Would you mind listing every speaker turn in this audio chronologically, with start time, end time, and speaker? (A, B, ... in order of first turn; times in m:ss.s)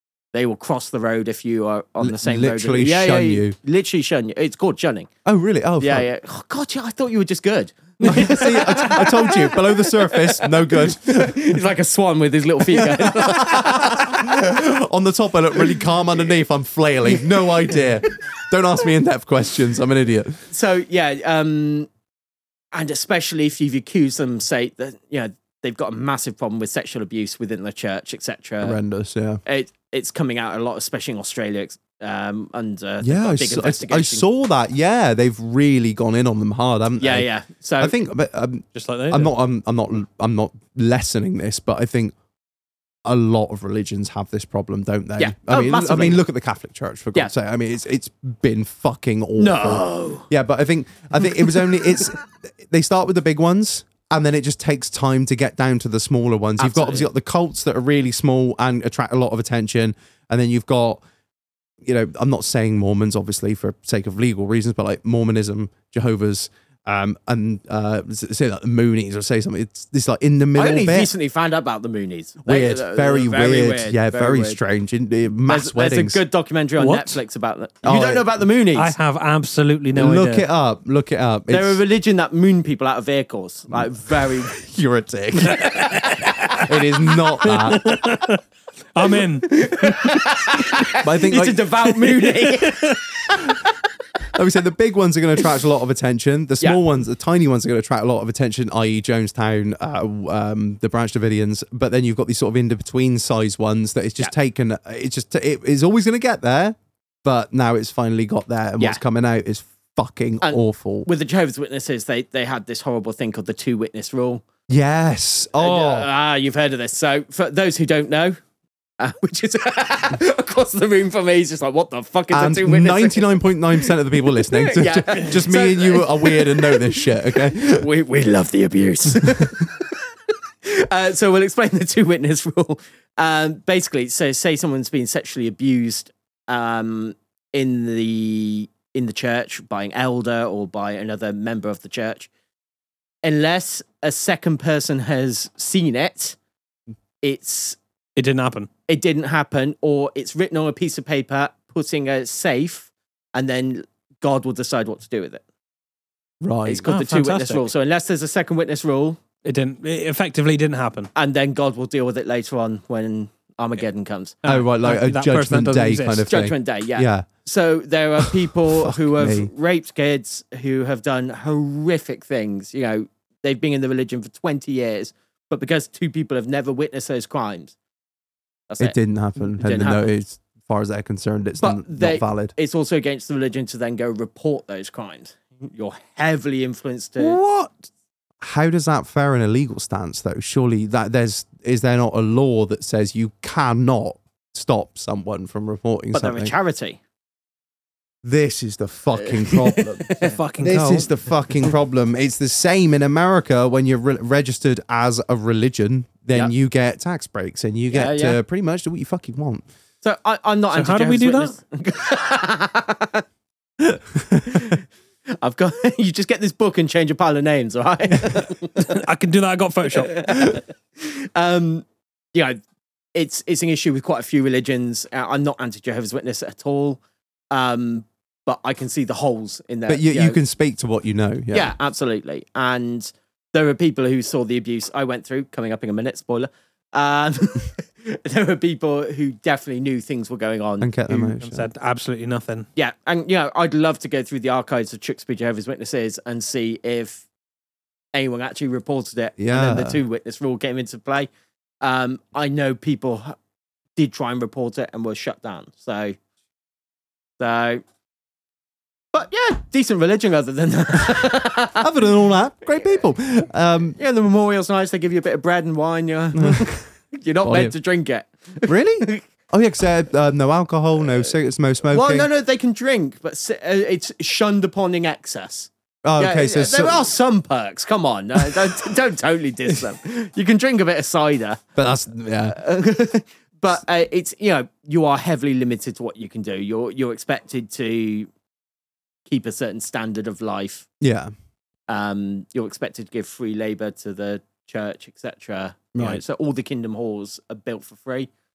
0:00.3-0:05.1 A
0:02.0-0:03.6 B
0:05.2-0:06.1 B
0:05.8-0:14.4 A
0:08.0-0:11.6 B
0:12.7-0:20.4 B
0:20.5-0:21.9 A
0:22.7-0:28.8 A
0:28.6-0:29.4 B
0:29.5-0:34.2 A
0:33.0-0:37.3 B
0:37.0-0:38.0 A
0:37.8-0:42.1 B
0:38.7-0:39.3 C
0:43.0-1:01.0 B
0:45.2-0:46.2 A
0:49.4-0:50.3 A
0:51.4-0:51.7 A
0:56.6-0:57.1 A
1:01.8-1:11.1 B
1:10.6-1:14.6 A
1:12.5-1:16.2 B
1:15.5-1:19.0 A
1:16.8-1:17.2 C
1:17.8-1:18.4 B
1:18.7-1:20.5 C
1:20.0-1:21.8 B
1:21.5-1:24.6 A
1:23.7-1:25.7 B
1:25.4-1:26.6 A
1:25.5-1:26.6 C
1:26.6-1:28.0 B
1:27.4-1:28.4 C
1:29.0-1:30.2 C
1:29.4-1:33.6 A
1:31.0-1:31.6 B
1:32.0-1:33.0 C
1:34.4-1:51.1 B
1:50.4-1:54.4 A
1:54.7-1:56.1 B
1:55.6-1:58.4 A
1:59.0-2:10.0 A
2:02.3-2:07.9 B
2:09.2-2:09.5 B
2:10.6-2:22.3 A
2:23.2-2:26.4 A
2:27.2-2:27.8 A
2:28.2-2:28.7 C
2:28.9-2:35.4 A
2:36.4-2:36.9 B
2:36.7-2:39.2 A
2:36.9-2:37.7 C
2:39.4-2:41.1 C
2:41.2-2:44.4 A
2:44.4-2:46.3 C
2:44.5-2:47.3 B
2:46.3-2:57.8 A
2:48.2-2:49.5 B
2:58.7-3:00.1 A
2:58.8-3:02.5 B
3:01.6-3:07.4 A
3:07.2-3:07.9 C
3:08.4-3:16.5 B
3:16.1-3:17.0 A
3:18.2-3:20.1 B
3:19.2-3:20.4 A
3:20.2-3:21.1 C
3:20.6-3:29.6 B
3:27.9-3:28.4 A
3:30.0-3:33.2 A
3:30.7-3:31.6 C
3:34.0-3:34.7 B
3:34.5-3:34.8 A
3:35.4-3:39.0 A
3:38.8-3:40.2 C
3:39.9-3:42.6 A
3:43.2-3:50.4 A
3:49.9-3:51.8 B
3:51.5-4:01.4 A
4:00.8-4:01.7 B
4:01.4-4:02.7 C
4:02.8-4:07.2 A
4:08.1-4:11.3 A
4:09.4-4:10.0 B
4:11.8-4:13.4 A
4:14.0-4:16.2 A
4:17.4-4:17.8 A
4:19.1-4:22.0 A
4:21.8-4:24.0 B
4:24.0-4:29.2 A
4:26.3-4:26.7 B
4:27.4-4:27.8 B
4:28.7-4:32.3 B
4:31.9-4:41.7 A
4:36.0-4:37.1 B
4:38.4-4:38.9 B
4:41.8-4:42.6 B
4:42.5-4:48.3 A
4:49.3-4:50.9 A
4:51.0-4:51.3 B
4:51.9-4:58.3 A
4:55.9-4:56.2 B